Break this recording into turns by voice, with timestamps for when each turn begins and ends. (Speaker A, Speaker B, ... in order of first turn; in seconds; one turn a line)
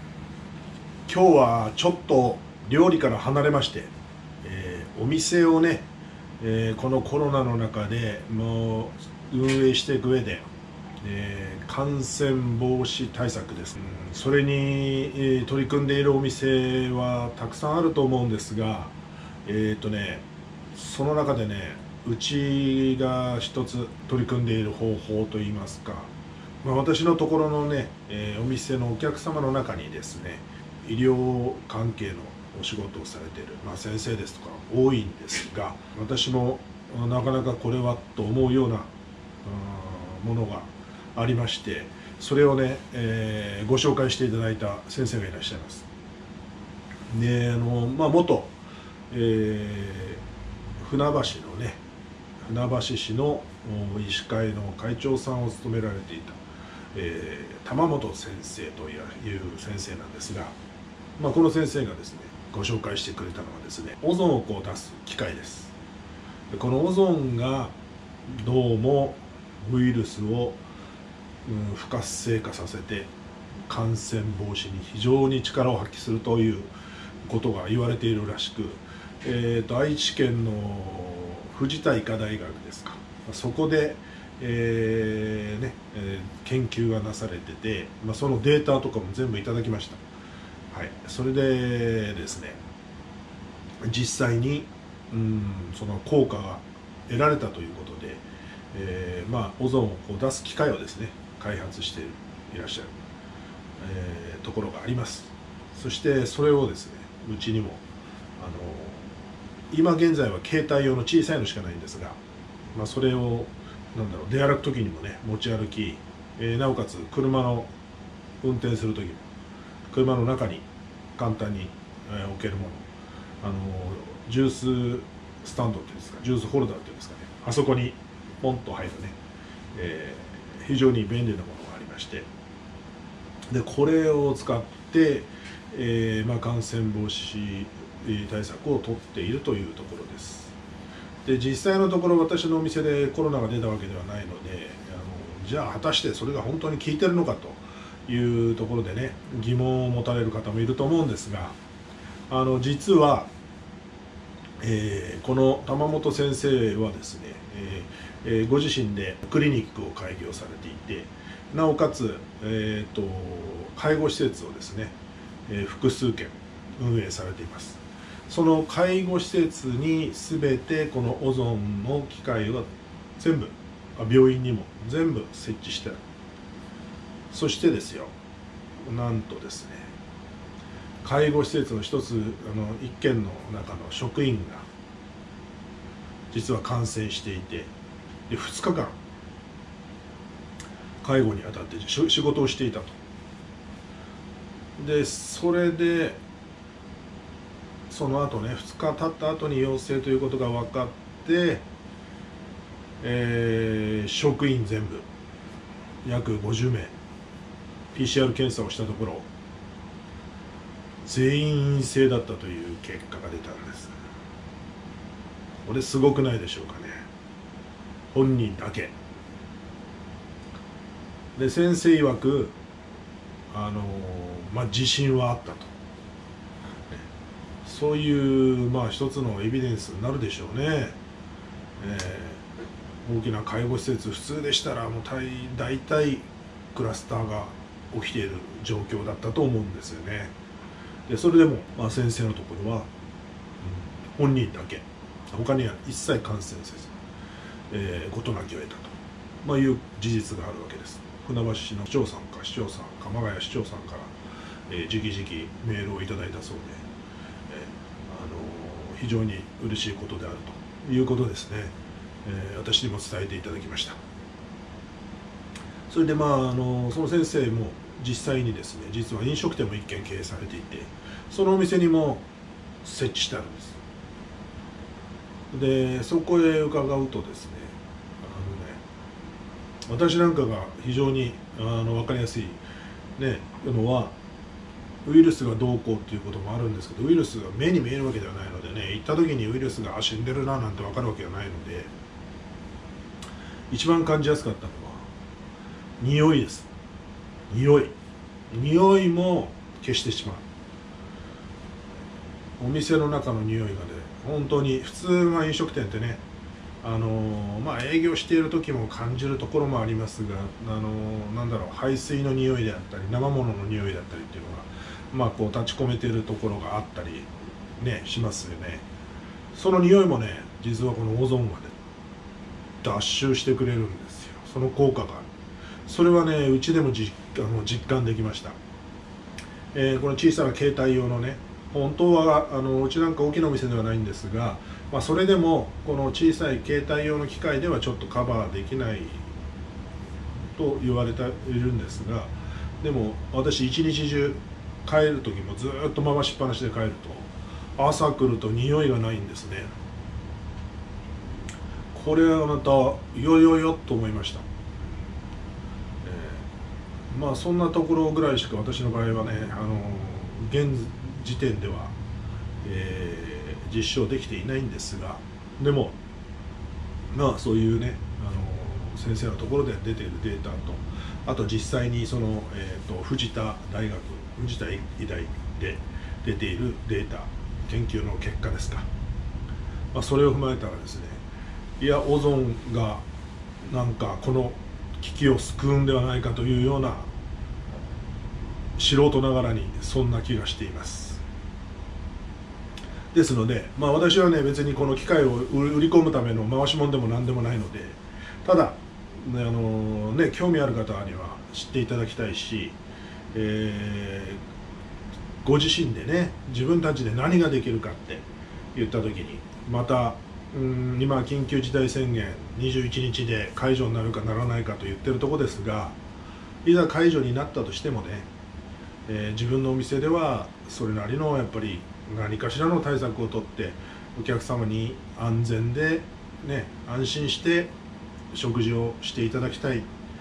Speaker A: 1.1-5.9
Speaker A: 6.4-10.5
Speaker A: 11.0-18.9
Speaker A: 19.4-38.9
Speaker A: 39.4-45.9
Speaker A: 47.1-48.5
Speaker A: 49.1-50.2
Speaker A: 50.8-51.8
Speaker A: 52.4-56.4
Speaker A: 56.9-60.5
Speaker A: 61.2-65.7
Speaker A: 66.5-70.6
Speaker A: 71.5-73.1
Speaker A: 73.7-76.7
Speaker A: 77.2-90.0
Speaker A: 90.7-92.6
Speaker A: 93.8-102.9
Speaker A: 103.8-107.8
Speaker A: 108.4-109.1
Speaker A: 109.7-112.2
Speaker A: 112.7-117.7
Speaker A: 118.4-119.2
Speaker A: 119.9-122.9
Speaker A: 123.4-129.2
Speaker A: 129.7-132.3
Speaker A: 133.5-140.5
Speaker A: 141.2-151.6
Speaker A: 152.3-153.3
Speaker A: 154.6-164.9
Speaker A: 165.5-176.0
Speaker A: 177.3-178.1
Speaker A: 178.8-179.9
Speaker A: 181.0-184.7
Speaker A: 186.3-187.7
Speaker A: 188.3-189.0
Speaker A: 191.0-193.0
Speaker A: 194.8-196.2
Speaker A: 197.9-201.7
Speaker A: 203.0-205.1
Speaker A: 206.0-206.9
Speaker A: 207.9-209.3
Speaker A: 211.0-213.9
Speaker A: 215.6-217.0
Speaker A: 218.1-218.9
Speaker A: 221.3-222.6
Speaker A: 223.5-225.7
Speaker A: 227.6-231.0
Speaker A: 231.8-232.4
Speaker A: 233.0-240.3
Speaker A: 241.1-242.9
Speaker A: 243.6-246.9
Speaker A: 247.7-254.1
Speaker A: 254.7-256.8
Speaker A: 257.5-264.0
Speaker A: 265.9-272.3
Speaker A: 272.8-273.8
Speaker A: 275.5-278.8
Speaker A: 279.9-282.6
Speaker A: 283.2-284.1
Speaker A: 285.0-291.9
Speaker A: 293.7-295.1
Speaker A: 296.0-296.7
Speaker A: 297.5-297.9
Speaker A: 298.5-300.4
Speaker A: 302.6-306.2
Speaker A: 306.8-318.9
Speaker A: 319.5-321.7
Speaker A: 322.8-325.3
Speaker A: 325.9-328.6
Speaker A: 329.7-339.3
Speaker A: 340.5-349.7
Speaker A: 351.9-354.4
Speaker A: 356.0-356.4
Speaker A: 357.1-361.9
Speaker A: 362.6-366.0
Speaker A: 367.1-378.9
Speaker A: 379.9-381.2
Speaker A: 381.8-383.0
Speaker A: 383.6-387.1
Speaker A: 388.8-391.2
Speaker A: 393.1-402.8
Speaker A: 403.3-404.4
Speaker A: 405.4-416.0
Speaker A: 416.6-418.3
Speaker A: 419.1-427.8
Speaker A: 428.3-429.9